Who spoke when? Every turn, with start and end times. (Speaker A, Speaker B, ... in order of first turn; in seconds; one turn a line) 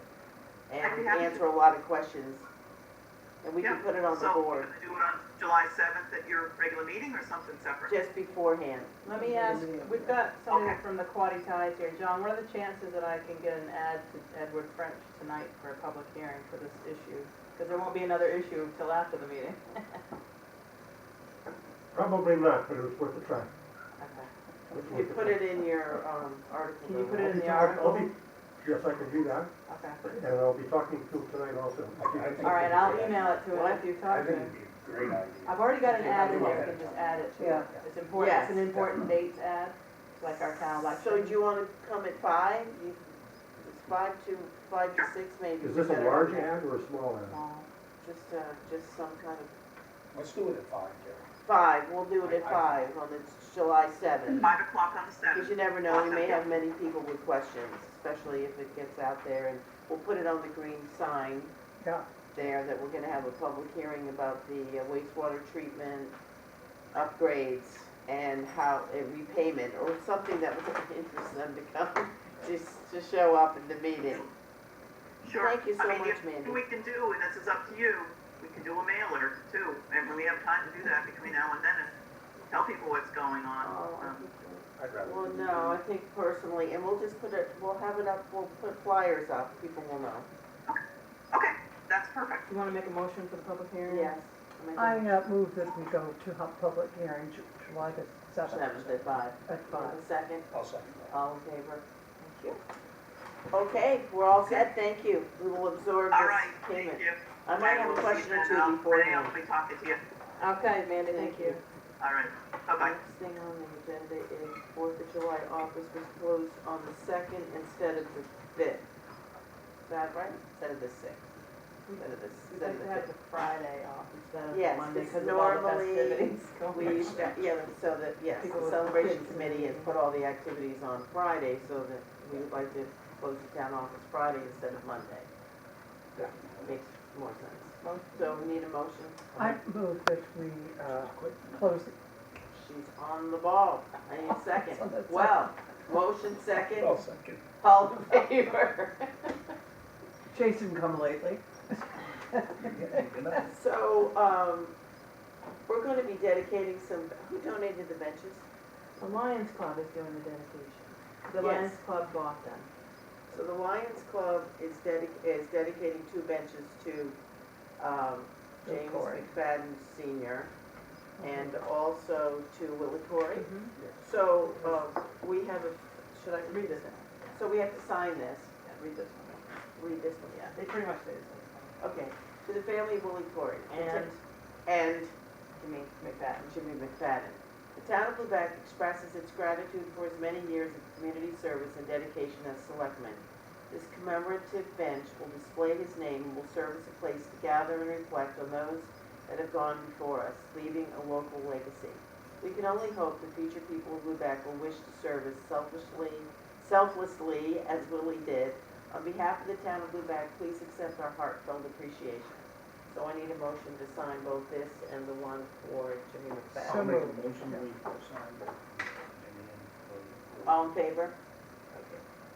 Speaker A: 0.7-2.5
Speaker B: 0.8-1.4
Speaker A: 3.4-4.7
Speaker B: 3.6-8.0
Speaker A: 7.9-9.0
Speaker C: 9.0-20.0
Speaker D: 9.2-10.2
Speaker B: 10.5-10.8
Speaker E: 21.9-23.5
Speaker C: 24.0-24.3
Speaker A: 24.7-27.9
Speaker E: 24.8-25.4
Speaker C: 26.8-28.1
Speaker E: 27.3-29.5
Speaker C: 29.7-30.1
Speaker E: 30.1-32.3
Speaker F: 32.0-33.5
Speaker C: 32.4-34.6
Speaker A: 33.5-34.0
Speaker F: 34.0-37.9
Speaker C: 35.5-41.4
Speaker A: 35.9-36.7
Speaker D: 37.4-37.7
Speaker A: 38.1-38.7
Speaker F: 38.7-39.1
Speaker A: 40.8-46.5
Speaker E: 45.6-47.4
Speaker C: 47.3-47.7
Speaker A: 48.0-49.5
Speaker F: 50.1-51.3
Speaker A: 51.4-54.5
Speaker F: 52.2-52.7
Speaker B: 54.3-56.5
Speaker A: 55.3-61.5
Speaker D: 61.8-62.1
Speaker A: 62.3-66.2
Speaker A: 66.9-74.2
Speaker B: 75.2-81.9
Speaker A: 75.4-76.6
Speaker B: 82.5-84.3
Speaker A: 83.6-90.3
Speaker F: 84.8-85.8
Speaker B: 91.3-92.5
Speaker C: 92.5-94.2
Speaker A: 93.9-95.3
Speaker D: 94.8-100.0
Speaker A: 98.5-100.5
Speaker F: 100.5-101.2
Speaker A: 101.1-101.8
Speaker C: 102.2-102.6
Speaker A: 103.5-109.4
Speaker B: 106.1-110.0
Speaker C: 110.4-111.6
Speaker A: 111.0-111.6
Speaker B: 112.0-113.0
Speaker A: 112.8-118.8
Speaker A: 119.8-121.3
Speaker C: 121.9-127.3
Speaker A: 122.0-123.1
Speaker A: 124.5-135.3
Speaker F: 126.7-127.6
Speaker C: 128.4-130.0
Speaker F: 136.1-136.8
Speaker A: 136.6-139.6
Speaker C: 137.8-138.4
Speaker D: 139.4-141.9
Speaker F: 140.8-141.6
Speaker A: 142.5-147.1
Speaker D: 144.3-145.4
Speaker F: 146.7-147.4
Speaker A: 147.6-149.5
Speaker D: 150.3-152.9
Speaker F: 152.6-153.5
Speaker A: 153.3-154.8
Speaker A: 155.7-158.4
Speaker C: 159.0-162.7
Speaker A: 161.4-161.8
Speaker A: 163.3-167.2
Speaker A: 167.8-170.5
Speaker D: 168.7-169.1
Speaker A: 171.2-178.6
Speaker C: 173.3-173.8
Speaker F: 173.8-174.0
Speaker C: 176.4-177.4
Speaker C: 178.6-179.4
Speaker A: 179.8-180.6
Speaker C: 180.5-181.8
Speaker A: 181.8-185.1
Speaker C: 183.7-184.2
Speaker C: 185.6-186.6
Speaker A: 186.4-217.0
Speaker D: 216.6-217.6
Speaker F: 216.6-220.7
Speaker A: 220.4-221.2